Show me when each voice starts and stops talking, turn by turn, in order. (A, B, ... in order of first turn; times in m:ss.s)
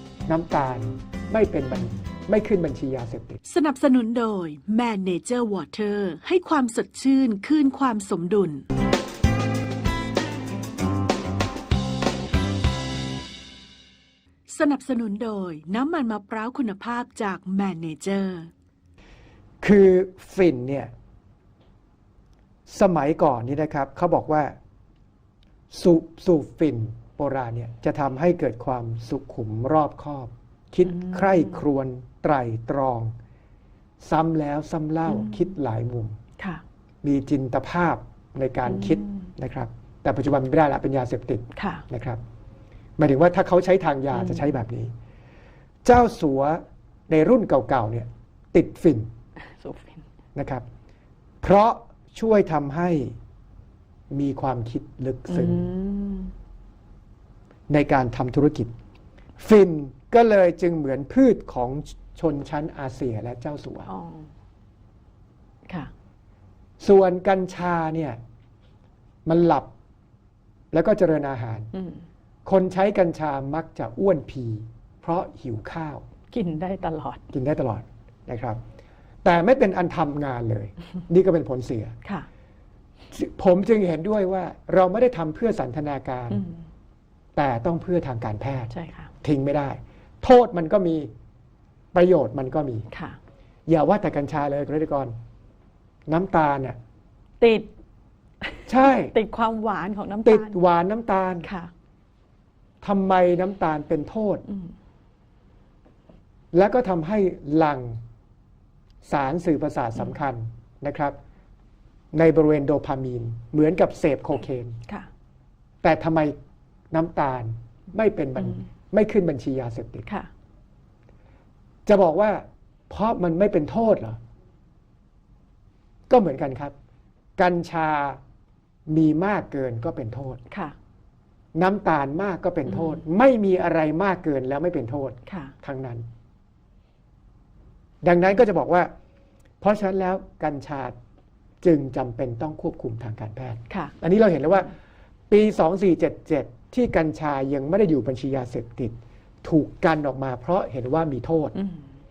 0:00.3-0:03.4 A
0:03.4-0:08.6 B
0:14.5-0:18.5 B
0:19.6-0:20.9 A
0:22.7-0:24.6 A
0:25.7-0:33.1 A
0:30.9-0:31.6 C
0:34.0-0:36.2 A
0:35.1-0:35.4 C
0:37.0-0:42.2 A
0:38.7-0:39.1 C
0:41.5-0:41.8 C
0:43.0-0:44.9 A
0:44.2-0:44.5 C
0:45.8-0:49.1 A
0:49.6-0:50.0 C
0:50.3-0:50.6 A
0:51.4-0:53.2 A
0:54.1-0:55.6 A
0:55.3-0:56.3 C
0:57.7-0:58.7 A
0:59.4-1:03.9 A
1:03.9-1:04.3 C
1:06.8-1:08.2 A
1:09.2-1:09.7 A
1:10.7-1:11.7 A
1:11.7-1:12.0 C
1:12.4-1:16.0 A
1:16.3-1:17.2 C
1:17.3-1:18.6 A
1:19.2-1:21.9 A
1:23.1-1:26.4 A
1:26.3-1:26.6 C
1:27.4-1:31.1 A
1:28.7-1:29.1 C
1:31.9-1:32.9 A
1:32.9-1:33.2 C
1:33.7-1:35.1 A
1:36.1-1:36.8 A
1:37.4-1:37.7 C
1:38.4-1:40.6 C
1:38.7-1:39.1 A
1:40.2-1:41.5 A
1:41.4-1:41.7 C
1:42.8-1:44.4 A
1:46.5-1:48.0 A
1:49.0-1:51.2 A
1:52.1-1:54.8 A
1:55.8-1:56.3 A
1:56.9-2:00.0 A
2:01.8-2:04.2 A
2:06.1-2:06.7 A
2:07.4-2:08.2 A
2:08.9-2:10.4 A
2:10.5-2:10.7 C
2:11.5-2:16.0 A
2:12.7-2:13.0 C
2:15.3-2:15.5 C
2:18.0-2:18.9 A
2:19.6-2:21.0 A
2:21.6-2:24.7 A
2:25.3-2:31.5 A
2:31.5-2:31.8 C